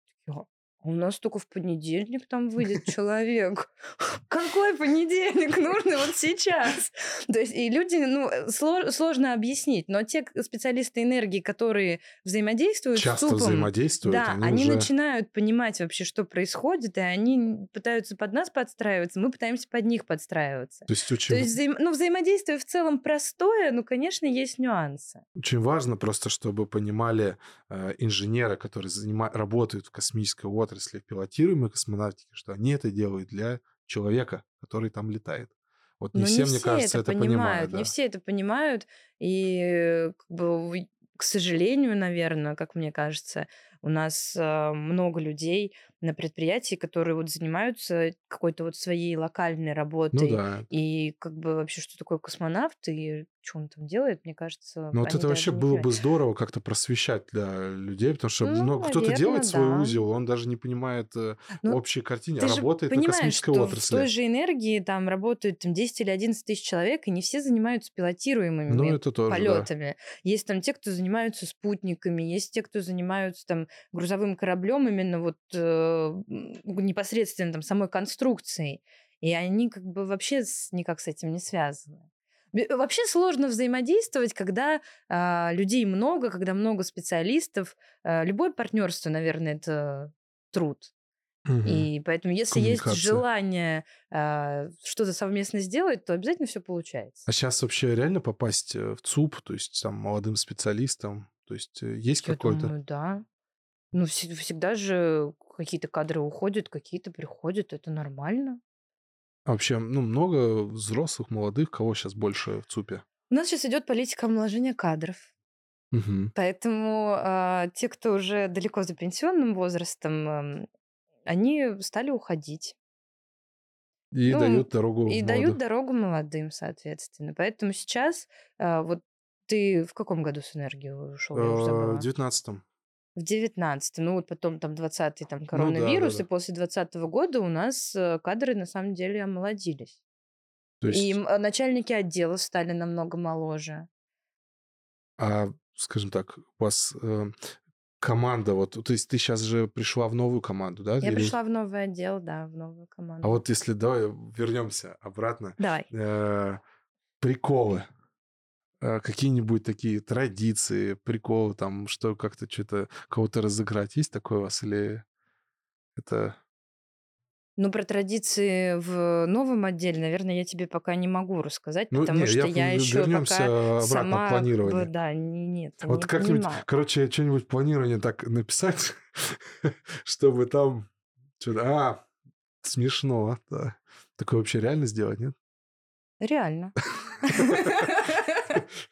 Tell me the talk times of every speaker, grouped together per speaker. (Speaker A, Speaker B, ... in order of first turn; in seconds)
Speaker A: 0.2-25.2, 36.1-55.9, 58.4-60.0, 62.4-90.9, 91.6-97.3, 102.2-103.2, 103.9-108.6, 113.3-115.3, 116.3-120.7, 121.3-122.8, 124.3-132.1, 133.2-140.0, 140.9-143.9, 151.0-153.4, 155.6-155.9, 167.6-176.7, 186.2-188.6
Speaker B: 12.9-14.9, 20.9-21.5, 25.4-37.9, 50.1-50.7, 54.9-64.1, 68.7-69.7, 91.5-91.9, 92.5-93.2, 97.3-102.7, 109.5-113.0, 115.9-116.3, 124.1-125.6, 131.3-132.6, 135.5-136.2, 140.8-141.2, 145.2-147.3, 148.0-151.3, 153.2-156.6, 157.2-157.9, 158.8-165.0, 165.9-166.4, 171.9-174.9, 175.8-180.9, 181.4-182.1, 182.6-185.3